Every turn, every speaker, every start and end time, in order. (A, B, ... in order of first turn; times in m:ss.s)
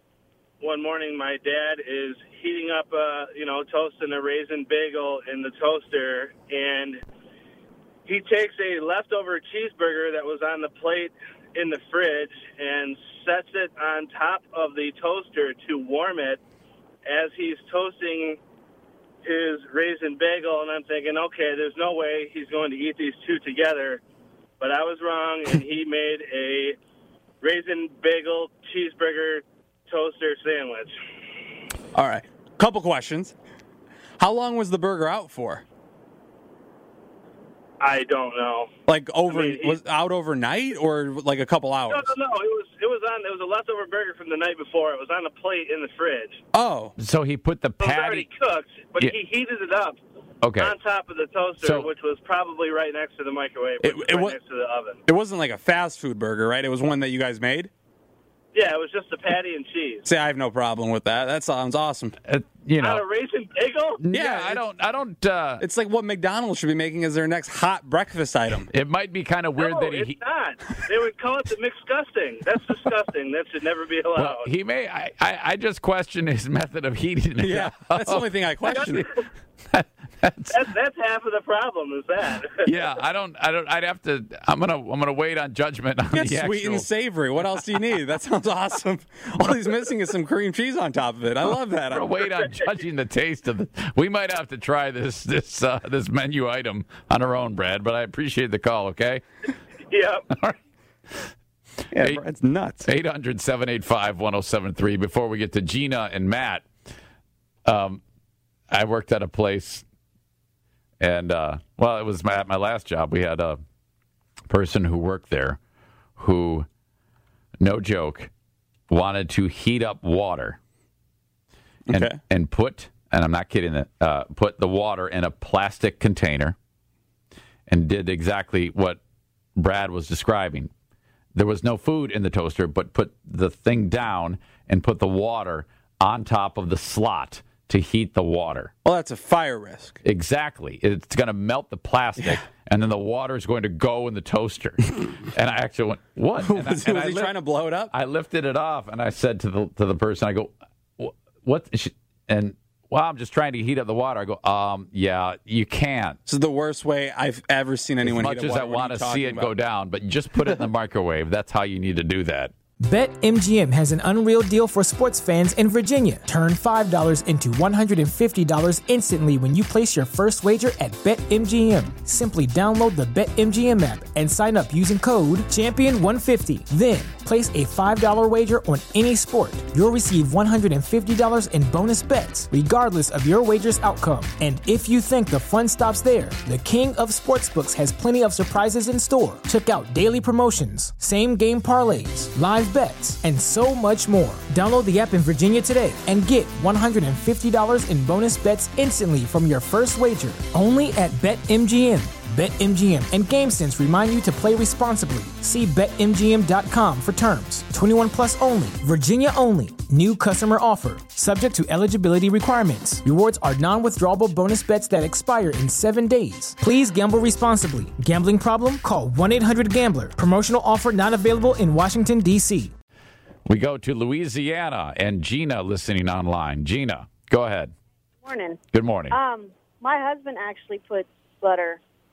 0:00.6-0:07.0 A
0:08.1-0:16.4 A
0:17.0-0:18.4 A
0:19.2-0:24.0 A
0:24.6-0:26.8 A
0:27.4-0:30.9 A
0:32.0-0:33.4 B
0:34.2-0:35.6 B
0:37.8-0:38.7 A
0:38.9-0:42.1 B
0:39.3-0:39.8 A
0:41.9-0:46.4 A
0:46.5-0:47.0 B
0:47.0-0:48.3 C
0:47.8-0:50.0 A
0:50.4-0:50.8 C
0:50.6-0:55.0 A
0:51.6-0:51.9 C
0:53.8-0:54.4 B
0:55.1-0:57.7 B
0:58.5-1:00.1 A
1:00.0-1:02.2 B
1:02.3-1:03.0 C
1:02.8-1:04.0 A
1:04.0-1:05.6 C
1:04.1-1:04.6 B
1:05.6-1:08.7 B
1:08.7-1:10.2 C
1:09.6-1:14.5 A
1:14.1-1:18.8 C
1:17.4-1:19.1 B
1:18.7-1:19.1 A
1:19.7-1:20.7 C
1:20.5-1:22.7 A
1:22.6-1:26.9 C
1:26.1-1:32.2 B
1:31.9-1:39.2 C
1:39.9-1:40.2 A
1:40.3-1:40.6 C
1:41.9-1:42.9 B
1:41.9-1:42.2 C
1:42.8-1:46.7 C
1:47.6-1:48.0 C
1:48.7-1:49.8 C
1:51.0-1:53.6 C
1:54.5-1:55.6 C
1:56.2-1:56.7 C
1:57.6-1:58.3 C
1:58.9-2:00.6 C
2:01.9-2:02.2 B
2:01.9-2:06.6 C
2:07.7-2:09.0 C
2:09.6-2:10.7 C
2:11.3-2:18.7 C
2:18.8-2:20.0 B
2:20.0-2:27.4 C
2:26.4-2:27.9 B
2:27.9-2:36.2 C
2:36.2-2:39.5 B
2:38.0-2:42.5 C
2:42.8-3:42.7 D
3:43.5-3:47.7 C
3:48.2-3:48.6 E
3:48.7-3:49.2 C
3:49.1-3:51.8 E